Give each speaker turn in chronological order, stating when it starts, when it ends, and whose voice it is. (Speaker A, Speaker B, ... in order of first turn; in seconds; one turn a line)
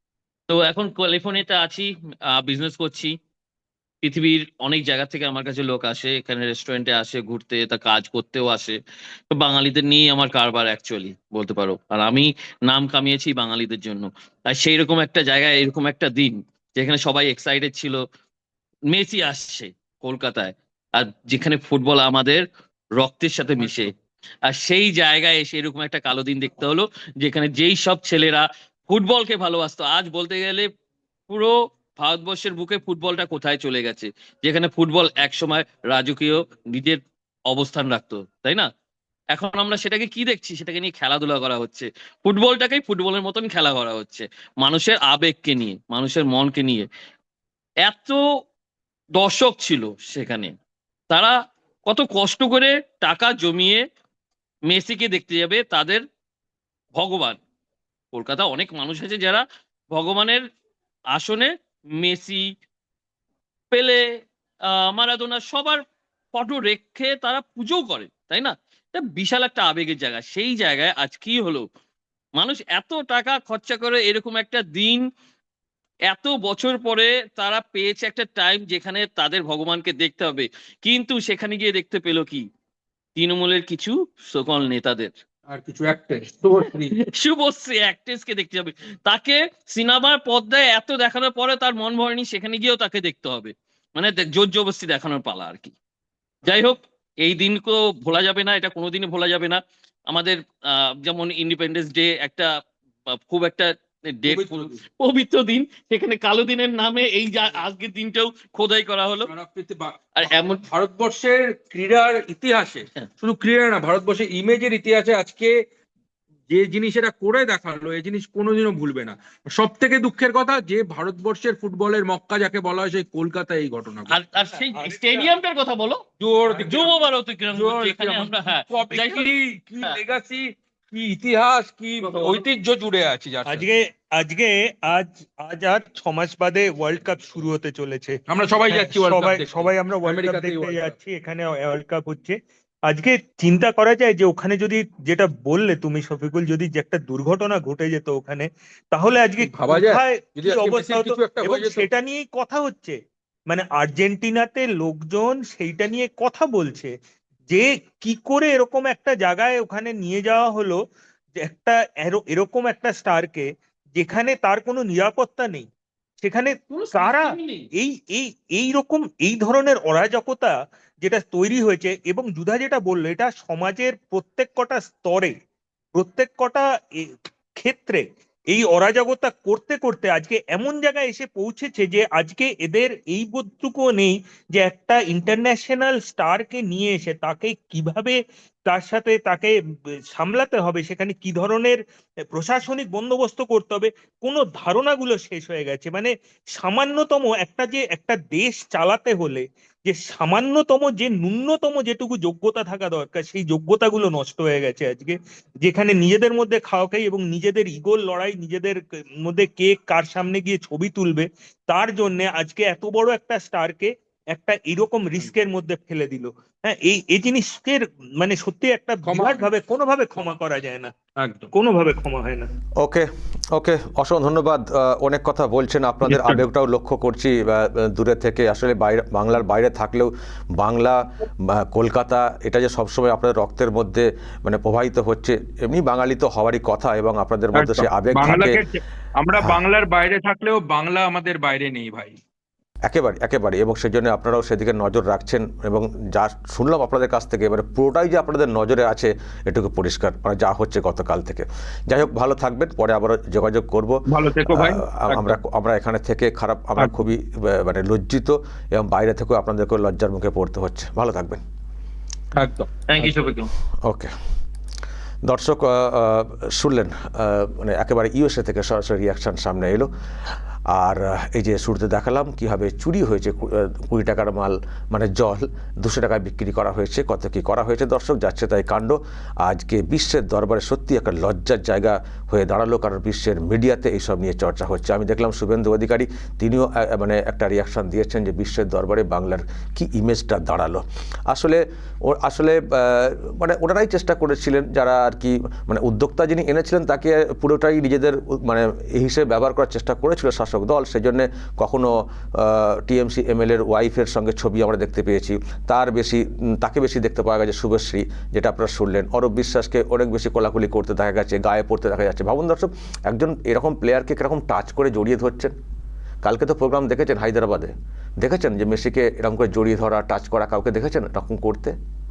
Speaker A: 0.5-3.1
Speaker A: 4.0-8.8
Speaker A: 9.3-18.0
Speaker A: 18.9-22.4
Speaker A: 23.0-23.9
Speaker A: 24.5-30.7
Speaker A: 31.3-38.7
Speaker A: 39.3-46.9
Speaker A: 47.8-48.2
Speaker A: 49.1-50.5
Speaker A: 51.1-51.3
Speaker A: 51.9-53.8
Speaker A: 54.7-56.0
Speaker A: 56.9-57.4
Speaker A: 58.1-60.4
Speaker A: 61.1-62.5
Speaker A: 63.7-64.2
Speaker A: 64.8-65.8
Speaker A: 66.3-71.7
Speaker A: 72.3-75.0
Speaker A: 76.1-82.4
Speaker A: 83.2-85.1
Speaker B: 85.5-86.9
Speaker A: 86.9-95.7
Speaker A: 96.4-102.5
Speaker A: 103.2-109.3
Speaker B: 104.3-104.8
Speaker B: 109.2-115.5
Speaker A: 110.2-110.6
Speaker B: 116.5-124.2
Speaker A: 124.1-126.0
Speaker C: 124.6-125.3
Speaker B: 126.2-133.7
Speaker A: 126.6-129.3
Speaker A: 132.1-132.4
Speaker C: 133.4-142.4
Speaker B: 138.3-140.9
Speaker C: 142.9-153.0
Speaker B: 149.4-151.9
Speaker C: 153.5-156.9
Speaker C: 157.5-160.8
Speaker C: 161.4-165.7
Speaker C: 166.2-175.3
Speaker A: 166.7-167.6
Speaker C: 175.9-189.5
Speaker C: 190.1-191.8
Speaker C: 192.3-220.9
Speaker B: 219.1-219.5
Speaker B: 221.2-221.5
Speaker C: 221.5-222.5
Speaker D: 222.8-238.6
Speaker B: 226.0-226.4
Speaker B: 237.5-242.2
Speaker D: 242.8-254.0
Speaker B: 254.1-255.4
Speaker D: 254.5-261.4
Speaker B: 262.4-263.1
Speaker A: 263.0-263.5
Speaker D: 263.8-264.1
Speaker D: 265.2-269.9
Speaker D: 270.7-315.5
Speaker D: 316.2-321.8